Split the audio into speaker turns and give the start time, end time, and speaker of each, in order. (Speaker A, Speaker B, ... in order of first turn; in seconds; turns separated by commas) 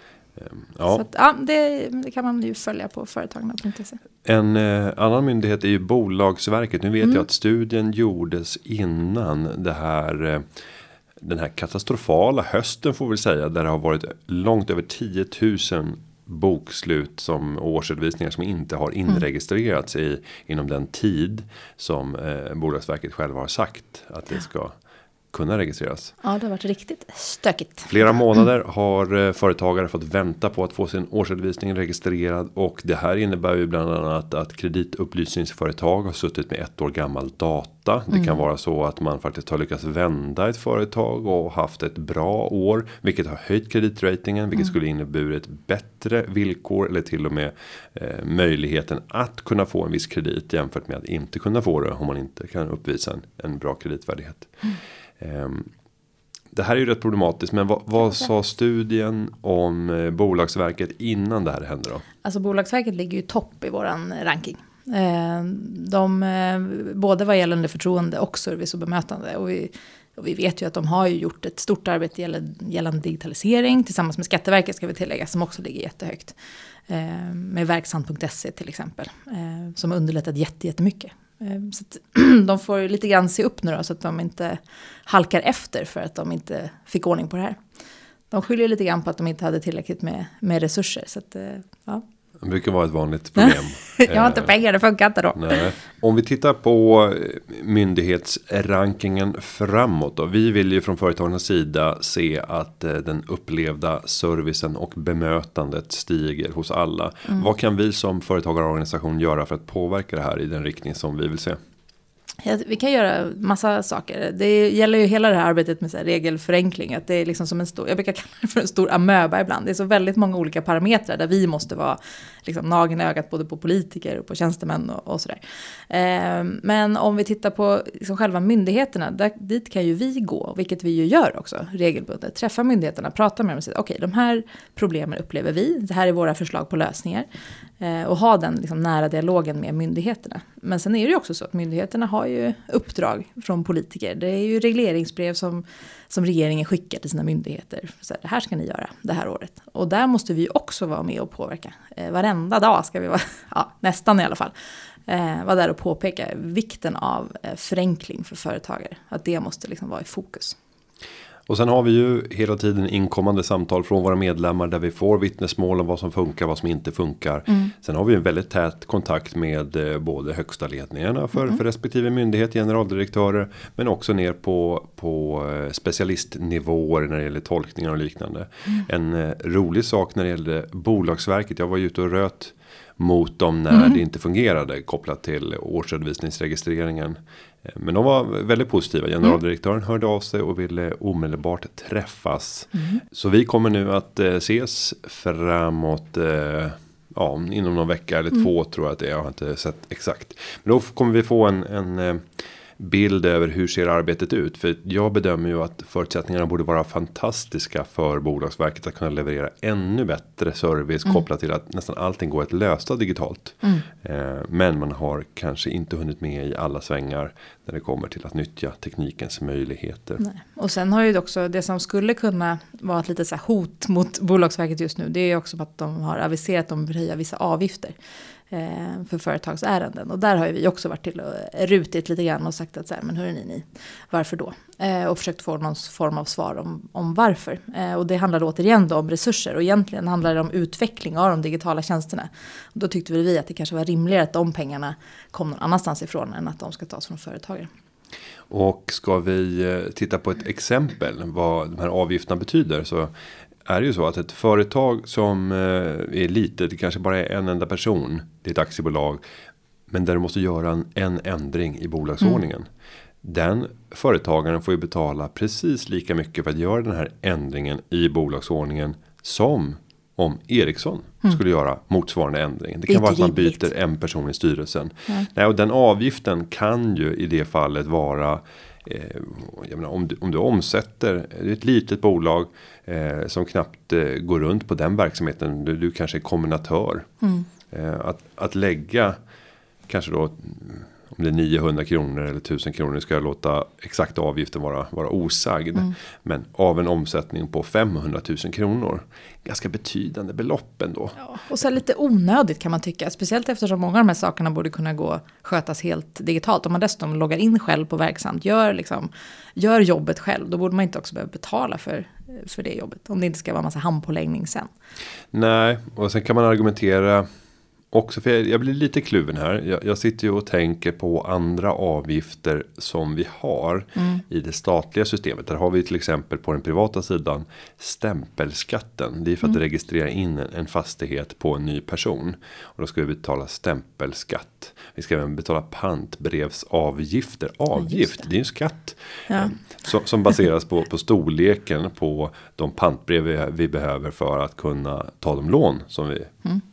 Speaker A: 0.4-1.0, Speaker B: 0.9-4.0, Speaker A: 4.2-10.5, Speaker A: 11.2-24.8, Speaker A: 25.3-26.1, Speaker B: 26.2-28.1, Speaker A: 27.9-54.5, Speaker A: 55.2-55.7, Speaker A: 56.5-62.0, Speaker B: 62.2-76.3, Speaker B: 76.9-87.6, Speaker B: 88.3-92.0, Speaker A: 92.4-94.6, Speaker B: 93.4-95.6, Speaker A: 95.3-111.6, Speaker B: 112.4-137.3, Speaker B: 137.8-154.5, Speaker B: 155.1-160.6, Speaker A: 161.5-220.2, Speaker B: 192.8-193.0, Speaker B: 220.2-227.9, Speaker B: 228.5-247.7, Speaker A: 248.5-253.1, Speaker A: 253.7-259.2, Speaker A: 259.9-262.7, Speaker A: 263.2-287.1, Speaker B: 272.9-273.7, Speaker A: 287.7-289.2, Speaker A: 289.9-301.2, Speaker B: 301.2-314.7, Speaker A: 315.3-317.3, Speaker A: 317.9-346.4, Speaker B: 324.0-324.2